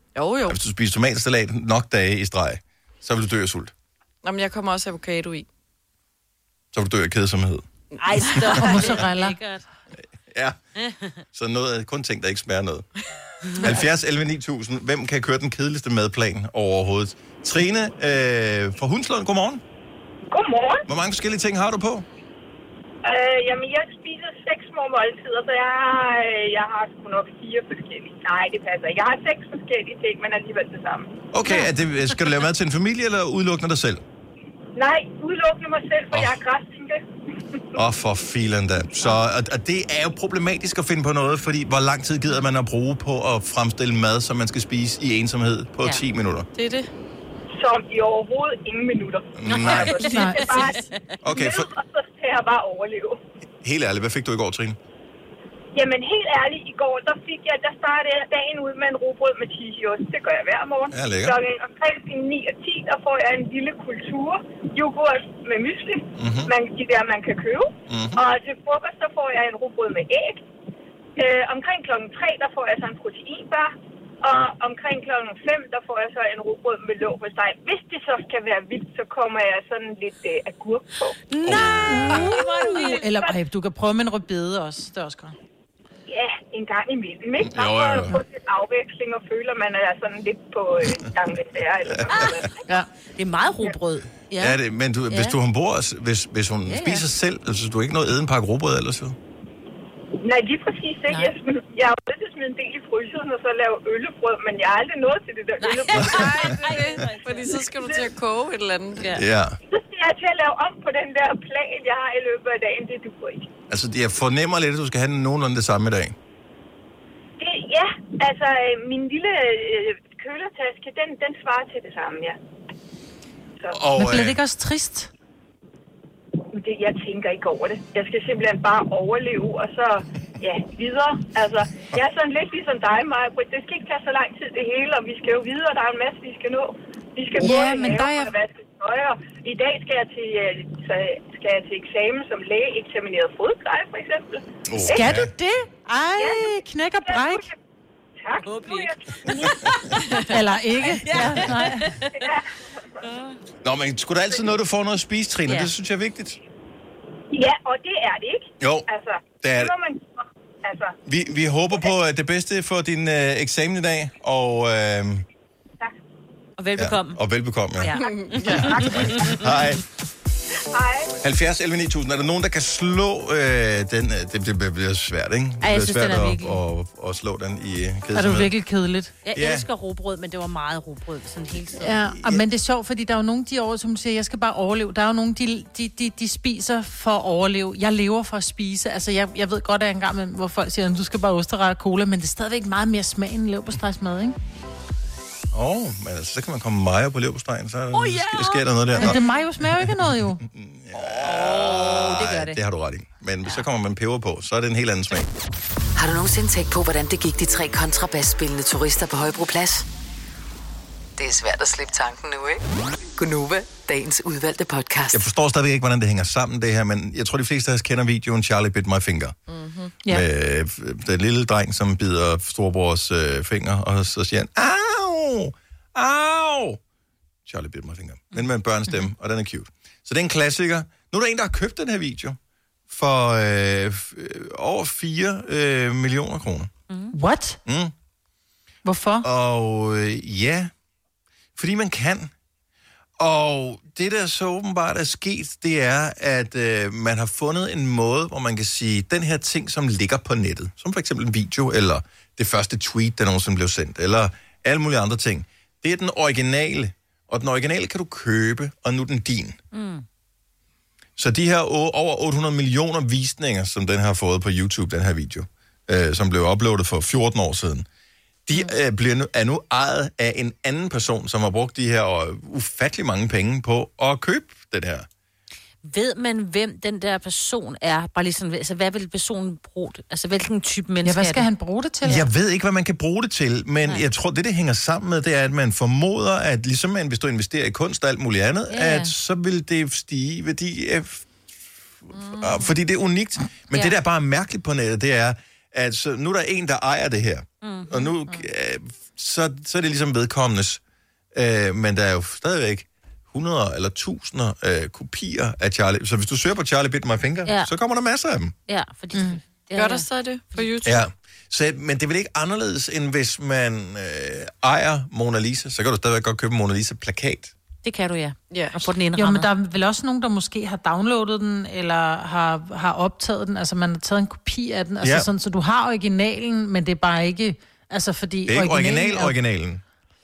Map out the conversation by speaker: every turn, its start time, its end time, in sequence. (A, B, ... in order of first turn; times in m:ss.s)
0:00.2-0:00.6 A
0:00.5-0:03.7 B
0:04.2-0:05.5 A
0:06.7-0:07.6 B
0:08.0-0:08.8 A
0:08.0-0:09.6 C
0:08.6-0:09.4 D
0:10.3-0:10.6 B
0:10.8-0:11.2 C
0:11.3-0:12.9 B
0:13.6-0:19.6 B
0:20.3-0:20.8 E
0:20.9-0:22.1 B
0:23.0-0:31.1 E
0:31.3-0:34.0 B
0:34.8-0:37.0 E
0:36.1-0:36.4 B
0:37.7-0:46.5 B
0:46.6-0:46.9 A
0:47.6-0:53.2 E
0:49.4-0:50.0 B
0:49.5-0:51.0 C
0:50.0-0:50.7 D
0:51.2-0:51.7 B
0:53.6-0:54.8 B
0:55.8-1:10.5 E
1:00.9-1:01.4 B
1:06.2-1:06.5 B
1:07.9-1:08.2 B
1:11.2-1:21.2 E
1:21.3-1:23.1 C
1:21.4-1:22.3 B
1:21.8-1:25.4 D
1:22.4-1:23.3 E
1:26.1-1:32.5 E
1:27.4-1:28.2 B
1:31.9-1:32.5 B
1:32.1-1:32.4 C
1:33.2-1:34.6 C
1:34.4-1:39.2 B
1:35.1-1:35.4 C
1:36.7-1:37.0 C
1:40.2-1:46.6 E
1:41.1-1:41.3 C
1:45.6-1:47.7 C
1:46.0-1:49.1 A
1:46.0-1:46.3 B
1:49.0-1:49.2 C
1:49.1-1:49.6 B
1:49.7-1:53.5 E
1:53.7-1:56.2 B
1:57.4-2:02.4 E
2:03.7-2:04.4 B
2:04.0-2:05.1 D
2:06.5-2:25.2 E
2:17.4-2:18.3 D
2:24.7-2:25.3 B
2:24.8-2:27.5 D
2:26.2-2:27.5 E
2:28.2-2:29.6 E
2:28.4-2:30.2 C
2:30.2-2:31.9 D
2:31.0-2:32.3 C
2:32.1-2:32.6 E
2:33.0-2:33.4 C
2:33.6-2:36.4 B
2:37.3-2:41.0 E
2:38.6-2:38.9 B
2:39.4-2:39.7 B
2:41.1-2:45.3 B
2:46.6-2:47.2 C
2:46.8-2:47.9 B
2:47.8-2:49.4 C
2:48.0-2:49.4 A
2:48.4-2:49.8 B
2:50.7-2:51.2 E
2:51.2-2:58.5 B
2:55.6-2:56.6 C
2:58.1-2:59.1 D
2:59.2-3:02.0 C
2:59.3-2:59.7 B
3:01.8-3:14.4 D
3:02.2-3:02.4 B
3:15.5-3:19.2 B
3:17.9-3:19.4 C
3:19.0-3:20.4 D
3:19.7-3:25.3 B
3:21.0-3:22.6 C
3:26.0-3:29.9 F
3:31.2-3:32.6 F
3:33.2-3:35.2 F
3:35.1-3:39.4 B
3:39.5-3:40.0 A
3:40.1-3:46.8 B
3:47.4-3:52.4 B
3:52.9-3:56.7 B
3:56.9-3:57.2 C
3:57.1-3:57.6 D
3:57.7-3:57.9 B
3:58.8-3:59.3 D
3:59.2-4:00.7 B
4:01.6-4:02.3 B
4:03.2-4:19.6 B
4:19.7-4:20.0 C
4:21.2-4:27.9 B
4:28.5-4:35.1 B
4:35.8-4:41.5 C
4:41.0-4:42.3 D
4:42.0-4:51.3 B
4:48.7-4:49.1 C
4:52.0-5:00.8 B
4:52.1-4:52.7 A
4:57.6-4:58.1 C
5:01.3-5:08.5 B
5:08.7-5:10.7 C
5:09.1-5:09.4 D
5:09.8-5:11.0 A
5:10.8-5:17.5 B
5:17.8-5:19.5 C
5:18.5-5:18.8 A
5:19.2-5:29.4 D
5:25.0-5:25.3 B
5:28.5-5:29.8 B